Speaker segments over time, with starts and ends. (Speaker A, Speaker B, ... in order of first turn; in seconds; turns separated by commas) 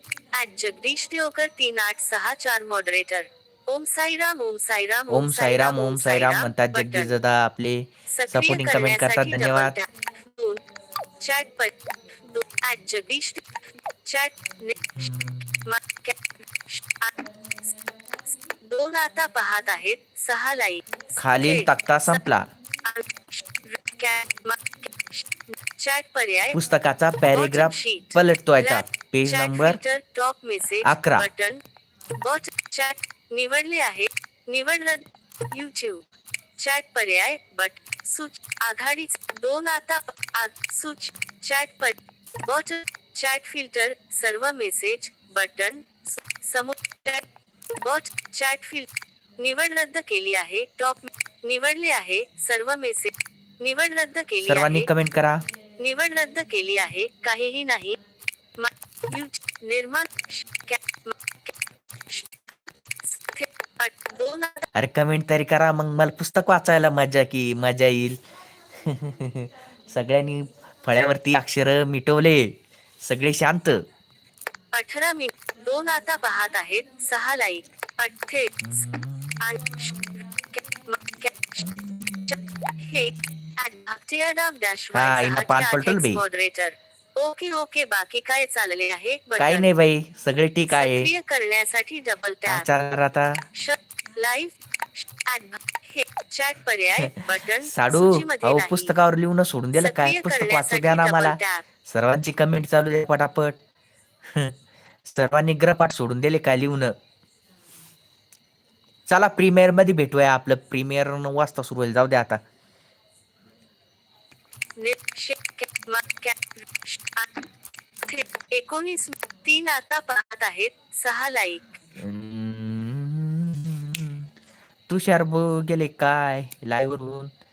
Speaker A: 0.3-7.1, Speaker B: 5.1-9.8, Speaker A: 8.1-10.6, Speaker A: 11.2-13.4, Speaker A: 14.1-15.1, Speaker B: 15.0-15.7, Speaker A: 15.6-17.3, Speaker A: 18.6-22.2, Speaker B: 21.2-22.5, Speaker A: 22.8-26.6, Speaker B: 26.5-29.8, Speaker A: 27.3-31.6, Speaker B: 30.8-31.3, Speaker A: 32.1-36.0, Speaker A: 36.6-54.9, Speaker B: 54.4-55.4, Speaker A: 55.8-58.0, Speaker A: 58.6-61.6, Speaker A: 62.1-62.4, Speaker A: 63.0-64.7, Speaker B: 64.7-68.2, Speaker B: 68.7-73.8, Speaker A: 74.7-78.8, Speaker B: 78.6-80.1, Speaker A: 79.4-81.7, Speaker B: 81.6-83.4, Speaker A: 82.3-89.7, Speaker B: 84.9-86.2, Speaker B: 89.4-91.1, Speaker A: 90.7-92.7, Speaker B: 92.5-93.4, Speaker A: 93.5-99.0, Speaker B: 97.0-103.6, Speaker A: 99.7-101.7, Speaker B: 104.3-106.9, Speaker B: 109.1-112.4, Speaker A: 114.8-117.4, Speaker A: 118.0-121.8, Speaker B: 122.0-124.3, Speaker B: 124.9-127.3